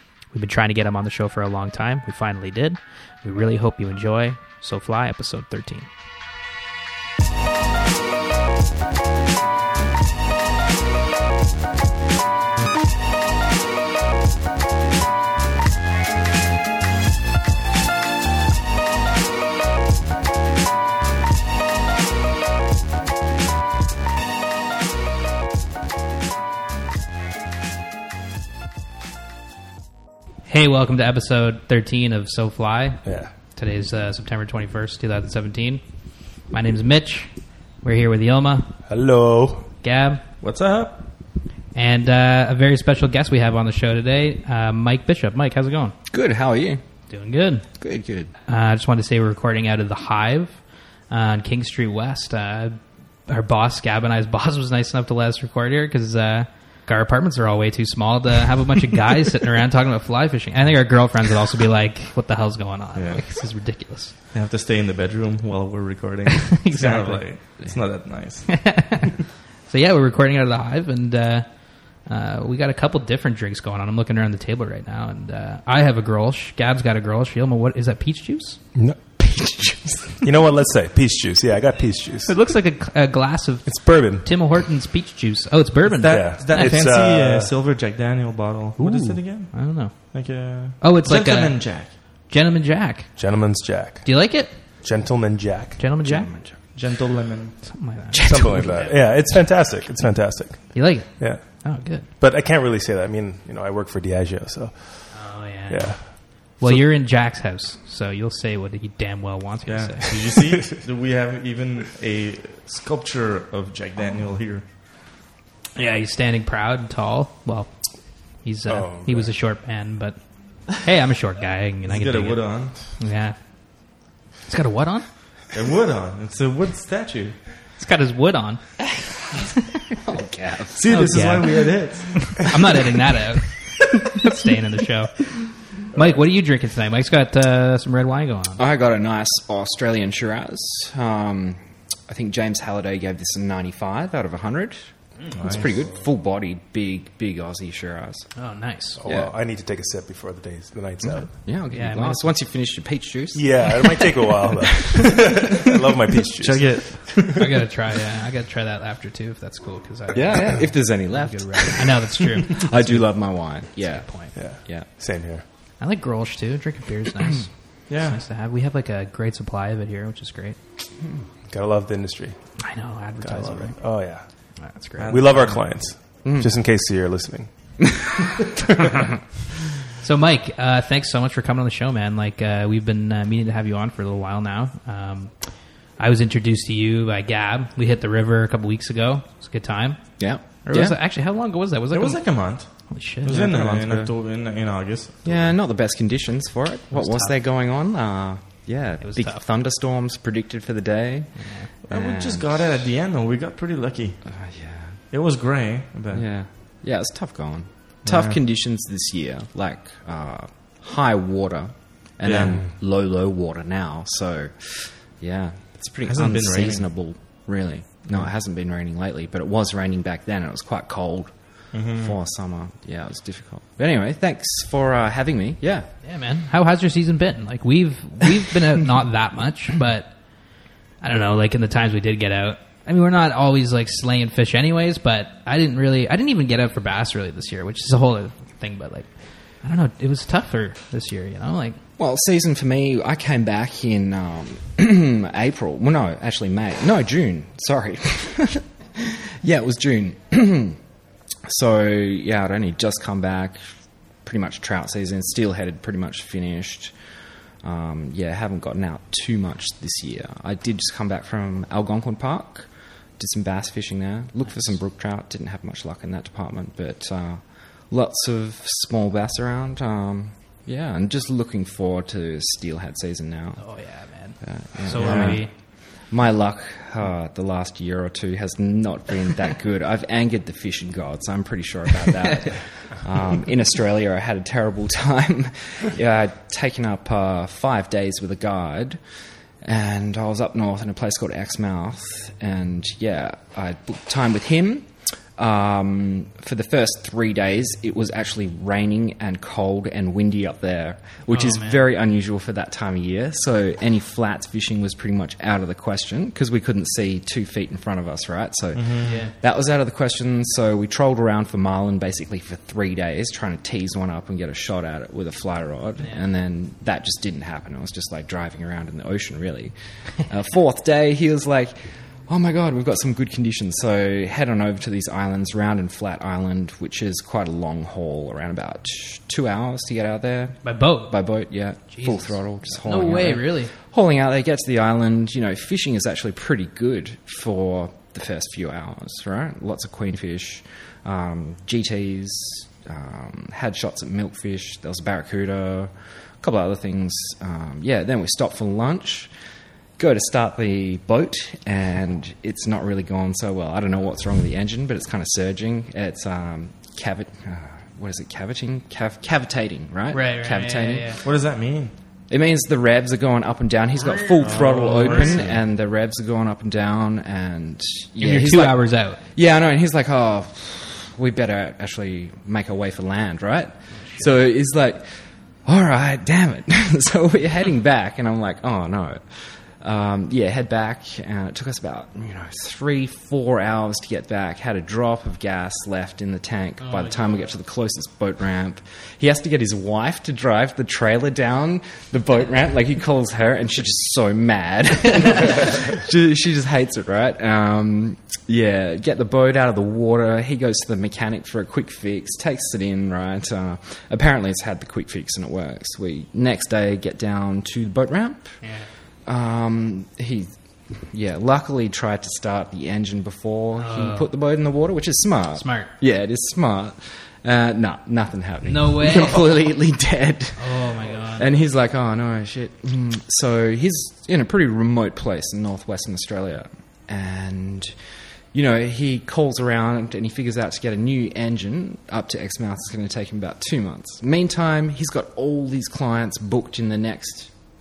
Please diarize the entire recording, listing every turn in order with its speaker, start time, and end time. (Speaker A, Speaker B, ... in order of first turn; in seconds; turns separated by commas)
Speaker A: 0.3-5.9, Speaker A: 30.5-35.8, Speaker B: 33.0-33.3, Speaker A: 36.4-38.7, Speaker B: 38.9-39.7, Speaker A: 39.8-40.2, Speaker C: 40.4-41.0, Speaker A: 41.7-45.9, Speaker D: 46.1-46.8, Speaker A: 47.1-47.7, Speaker D: 47.8-48.3, Speaker A: 48.5-64.1, Speaker C: 62.9-63.3, Speaker C: 64.3-69.0, Speaker A: 66.5-67.3, Speaker A: 68.5-78.6, Speaker D: 79.2-80.2, Speaker B: 80.2-82.4, Speaker A: 82.2-86.8, Speaker B: 83.7-84.3, Speaker C: 85.9-91.9, Speaker B: 86.1-87.5, Speaker B: 88.8-89.2, Speaker A: 89.5-94.5, Speaker B: 93.2-95.8, Speaker A: 95.8-96.3, Speaker D: 96.0-96.6, Speaker C: 96.7-97.8, Speaker A: 97.7-98.9, Speaker D: 98.1-98.9, Speaker B: 98.2-106.8, Speaker A: 100.7-102.0, Speaker A: 105.1-110.2, Speaker C: 109.7-114.7, Speaker A: 115.8-123.3, Speaker B: 118.7-119.3, Speaker C: 121.8-123.0, Speaker A: 124.5-125.0, Speaker C: 125.5-127.4, Speaker A: 127.8-130.0, Speaker D: 130.0-130.9, Speaker C: 130.7-132.6, Speaker A: 130.9-135.4, Speaker A: 135.9-138.6, Speaker D: 138.6-148.3, Speaker C: 145.3-145.6, Speaker A: 148.3-149.0, Speaker B: 149.0-151.3, Speaker D: 149.1-149.3, Speaker A: 151.2-152.3, Speaker D: 151.4-153.8, Speaker B: 153.3-157.2, Speaker C: 156.4-157.4, Speaker A: 157.3-163.1, Speaker D: 160.1-164.9, Speaker A: 163.8-164.3, Speaker B: 164.3-165.4, Speaker A: 165.8-170.6, Speaker C: 167.9-168.2, Speaker B: 171.5-172.4, Speaker A: 172.6-174.0, Speaker B: 173.2-174.2, Speaker A: 174.6-175.6, Speaker C: 175.0-175.7, Speaker B: 175.1-177.5, Speaker D: 176.2-176.5, Speaker D: 178.7-179.1, Speaker A: 180.0-193.4, Speaker D: 190.2-190.9, Speaker C: 191.9-195.5, Speaker D: 193.3-194.1, Speaker D: 195.2-202.8, Speaker A: 196.9-197.2, Speaker A: 199.0-199.4, Speaker A: 201.4-201.7, Speaker C: 201.9-204.3, Speaker D: 204.3-204.9, Speaker C: 205.1-206.2, Speaker D: 206.1-225.9, Speaker C: 208.0-208.4, Speaker C: 212.2-212.6, Speaker C: 216.0-216.9, Speaker C: 221.7-222.1, Speaker A: 226.0-230.1, Speaker A: 231.0-241.8, Speaker D: 242.0-250.8, Speaker D: 251.4-253.6, Speaker D: 254.2-256.9, Speaker D: 257.6-273.6, Speaker A: 273.6-275.5, Speaker D: 274.4-289.0, Speaker C: 274.9-275.4, Speaker D: 289.6-349.3, Speaker A: 301.3-301.8, Speaker C: 308.7-309.1, Speaker A: 309.0-309.3, Speaker A: 330.6-331.2, Speaker A: 331.9-333.7, Speaker D: 350.0-361.2, Speaker A: 360.1-361.2, Speaker C: 361.2-361.9, Speaker D: 362.3-375.0, Speaker A: 363.9-365.5, Speaker C: 364.4-365.6, Speaker A: 368.2-369.2, Speaker A: 374.0-374.3, Speaker D: 375.6-408.6, Speaker A: 386.8-387.5, Speaker A: 408.6-408.9, Speaker D: 409.2-437.5, Speaker A: 413.8-414.3, Speaker A: 415.6-415.9, Speaker A: 418.6-419.5, Speaker A: 420.6-421.4